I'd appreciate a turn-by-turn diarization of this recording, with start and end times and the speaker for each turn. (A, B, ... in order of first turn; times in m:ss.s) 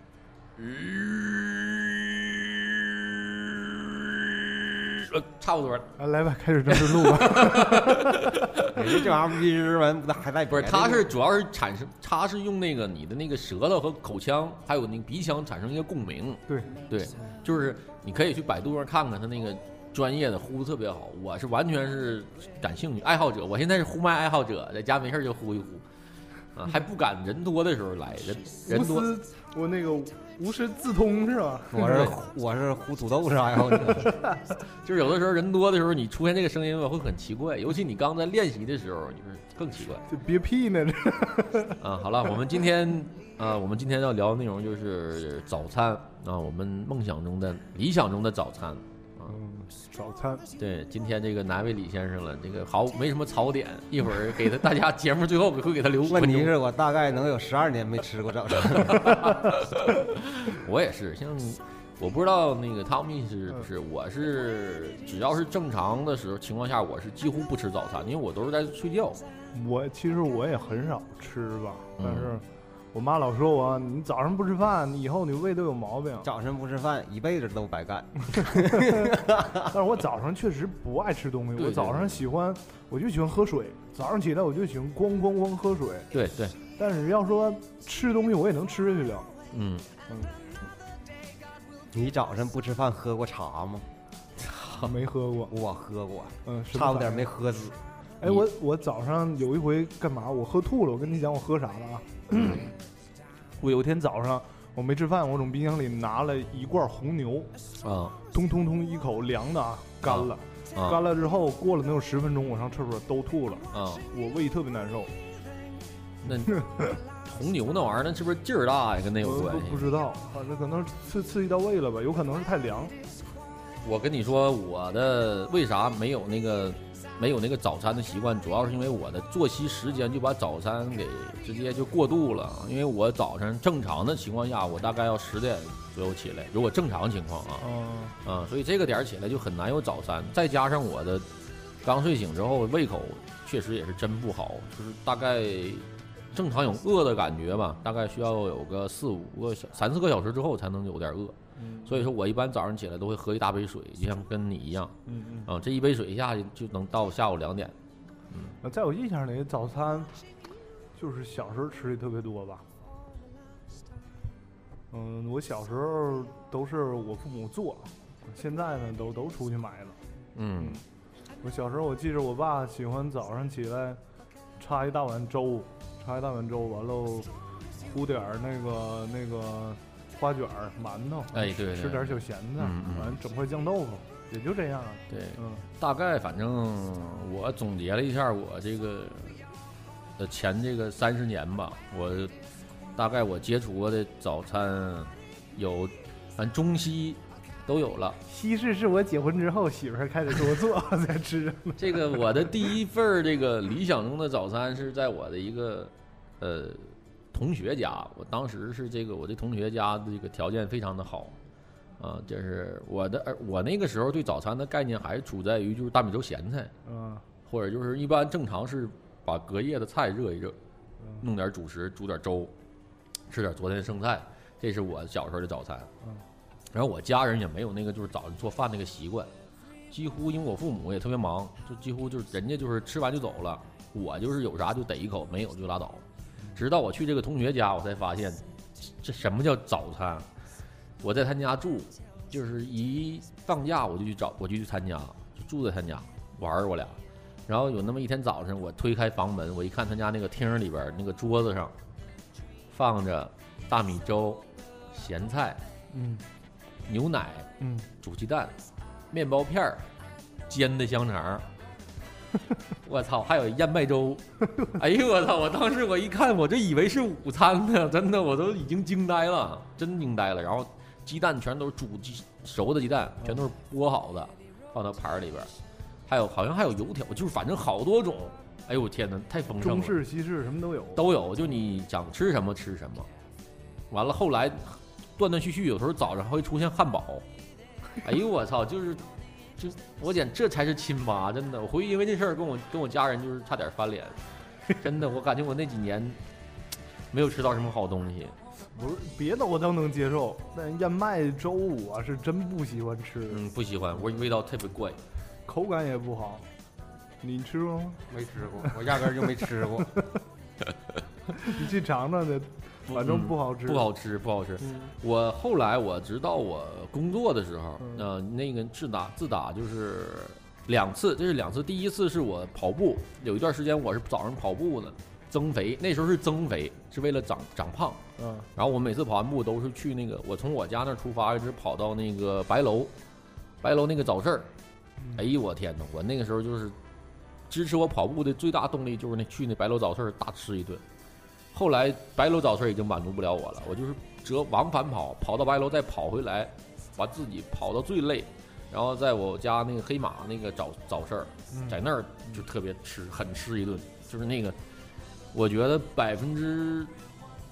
0:00.6-0:05.9 A
0:06.0-0:08.6 B
0:06.7-0:09.1 A
0:08.7-0:11.1 C
0:10.5-0:25.8 A
0:16.5-0:16.7 B
0:26.5-0:29.1 A
0:28.6-0:32.1 B
0:31.7-0:34.2 C
0:31.8-0:32.2 A
0:34.8-0:40.0 A
0:40.0-0:41.8 B
0:41.8-0:49.3 A
0:49.2-0:50.4 B
0:50.6-0:56.5 A
0:56.1-0:59.5 C
0:59.0-1:09.2 A
1:09.5-1:16.3 B
1:12.0-1:12.3 A
1:16.2-1:19.6 C
1:18.6-1:26.1 B
1:21.6-1:22.2 A
1:26.1-1:26.6 A
1:26.8-1:29.3 B
1:29.5-1:29.8 A
1:30.1-1:30.3 B
1:31.9-1:33.9 C
1:34.4-1:34.9 A
1:34.8-1:35.5 B
1:35.5-1:37.8 C
1:36.4-1:37.3 B
1:38.2-1:42.7 B
1:43.6-1:47.5 B
1:47.8-1:48.2 A
1:48.3-1:55.1 B
1:50.0-1:51.0 A
1:53.7-1:54.0 A
1:56.2-1:56.6 A
1:56.3-1:56.8 B
1:57.2-1:59.8 A
1:59.2-2:02.9 B
2:03.8-2:17.6 A
2:17.6-2:18.2 B
2:18.2-2:21.3 A
2:21.8-2:34.9 A
2:31.6-2:32.1 B
2:35.0-2:35.5 B
2:35.5-2:37.8 A
2:38.3-2:38.6 A
2:38.6-2:40.2 B
2:40.9-2:42.7 B
2:44.9-2:50.0 B
2:50.3-2:50.8 A
2:50.6-2:50.8 B
2:51.4-2:54.0 B
2:54.6-3:05.7 B
3:01.3-3:03.2 A
3:05.1-3:09.4 A
3:10.2-3:12.3 A
3:13.0-3:18.2 A
3:18.2-3:22.5 B
3:21.8-3:31.3 A
3:32.0-3:36.7 A
3:36.8-3:37.2 B
3:37.5-3:40.6 A
3:41.2-3:42.5 A
3:43.3-3:45.9 A
3:46.7-3:49.3 A
3:49.9-4:00.3 A
4:01.0-4:11.7 A
4:12.7-4:15.6 A
4:15.9-4:16.2 B
4:16.8-4:18.6 A
4:17.6-4:17.9 B
4:19.1-4:19.9 A
4:20.5-4:21.5 A
4:22.8-4:35.5 A
4:33.2-4:33.5 B
4:36.1-4:40.0 A
4:39.6-4:41.1 B
4:40.9-4:43.1 A
4:43.9-4:47.2 A
4:48.0-4:49.0 A
4:49.6-4:56.2 A
4:57.1-4:58.4 A
4:58.8-5:03.4 B
5:03.3-5:05.0 A
5:05.5-5:06.5 B
5:07.2-5:08.0 B
5:08.1-5:09.9 C
5:11.4-5:13.9 B
5:12.9-5:28.0 A
5:14.6-5:14.9 B
5:28.2-5:28.5 B
5:28.5-5:32.9 A
5:33.6-5:34.5 A
5:35.0-5:35.2 B
5:35.1-5:36.8 A
5:37.5-5:40.8 A
5:41.5-5:54.6 A
5:51.5-5:51.8 B
5:55.3-5:56.9 A